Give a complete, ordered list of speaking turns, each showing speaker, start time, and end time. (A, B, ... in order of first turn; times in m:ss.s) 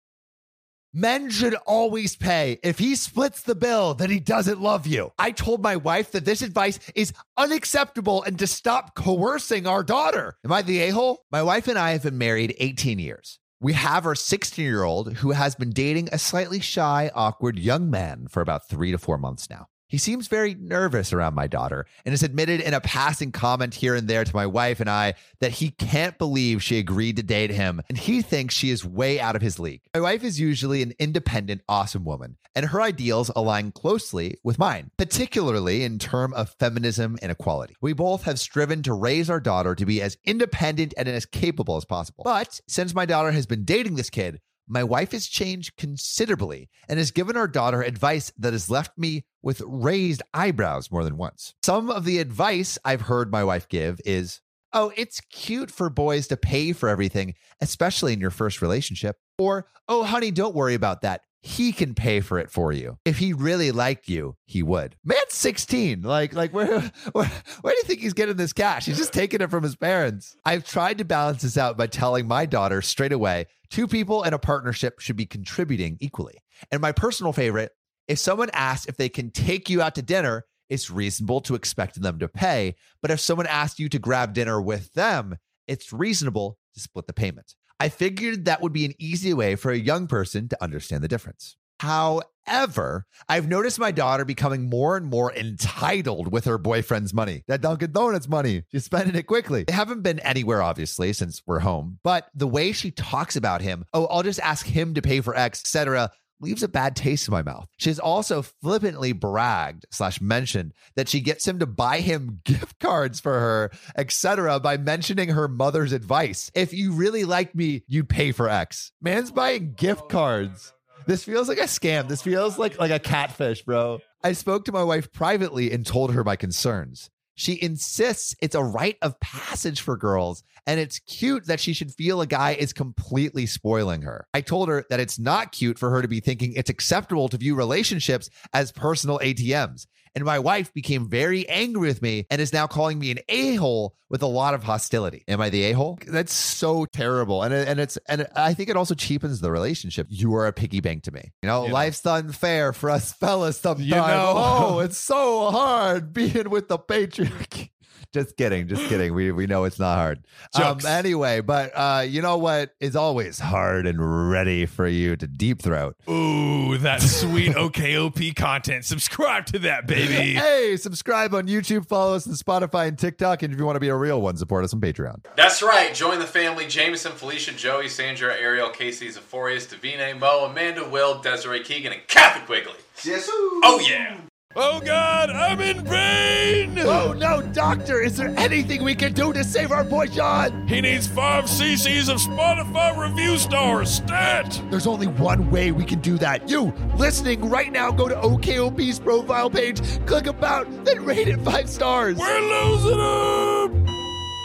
0:00.9-2:46.0 A
2:31.6-2:31.9 B
2:33.8-2:34.8 B
2:40.5-2:41.0 B
2:46.1-2:50.4 B
2:47.1-2:47.6 A
2:49.9-2:55.2 A
2:55.3-3:03.0 B
3:03.0-3:03.9 A
3:03.6-3:07.1 B
3:06.8-3:10.7 A
3:10.7-3:14.6 B
3:14.7-3:22.3 A
3:22.1-3:23.8 B